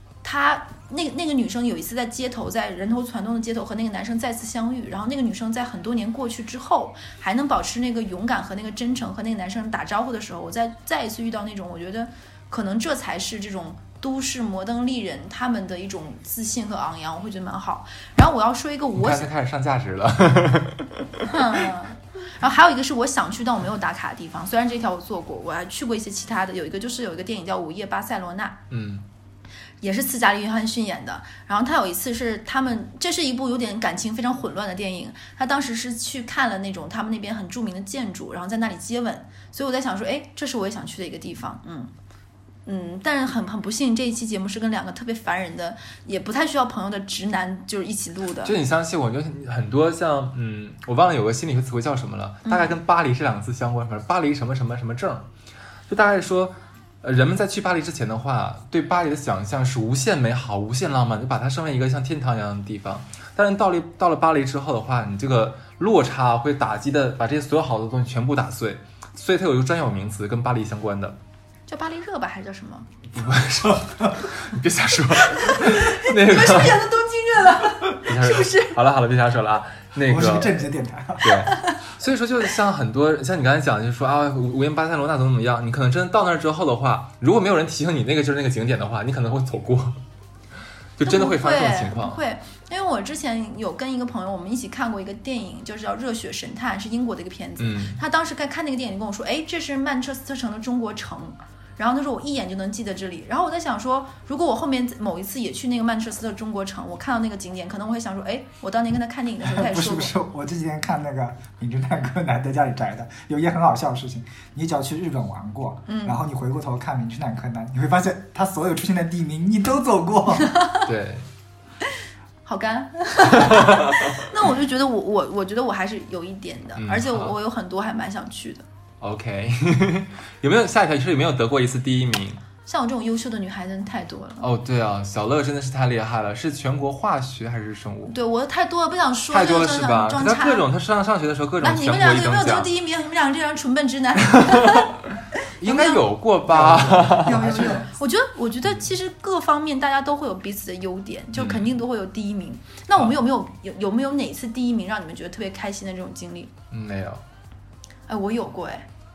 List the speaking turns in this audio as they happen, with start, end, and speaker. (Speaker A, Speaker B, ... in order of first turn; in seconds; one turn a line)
Speaker A: 0.2-19.3
Speaker B: 18.9-21.7
Speaker A: 21.2-28.6
Speaker B: 28.7-29.0
Speaker A: 29.8-41.9
Speaker A: 42.6-48.6
Speaker B: 48.4-55.2
Speaker A: 52.4-52.8
Speaker B: 55.9-71.2
Speaker A: 71.7-72.9
Speaker B: 73.1-76.8
Speaker A: 75.3-78.8
Speaker B: 77.9-80.6
Speaker C: 80.0-81.4
Speaker B: 81.2-90.0
Speaker A: 81.5-81.8
Speaker B: 91.0-92.2
Speaker A: 91.0-110.1
Speaker B: 97.6-98.0
Speaker C: 109.4-120.5
Speaker A: 115.9-116.2
Speaker A: 120.4-120.8
Speaker B: 120.8-121.2
Speaker A: 122.4-128.7
Speaker B: 123.4-124.0
Speaker B: 126.8-127.3
Speaker B: 129.0-132.4
Speaker A: 132.7-134.5
Speaker B: 134.4-138.1
Speaker A: 138.1-140.7
Speaker B: 139.3-142.7
Speaker A: 141.6-144.9
Speaker B: 144.3-144.8
Speaker A: 145.6-146.0
Speaker B: 145.6-147.8
Speaker C: 146.5-147.9
Speaker A: 147.2-156.5
Speaker B: 151.3-151.7
Speaker B: 156.7-157.2
Speaker A: 158.1-158.8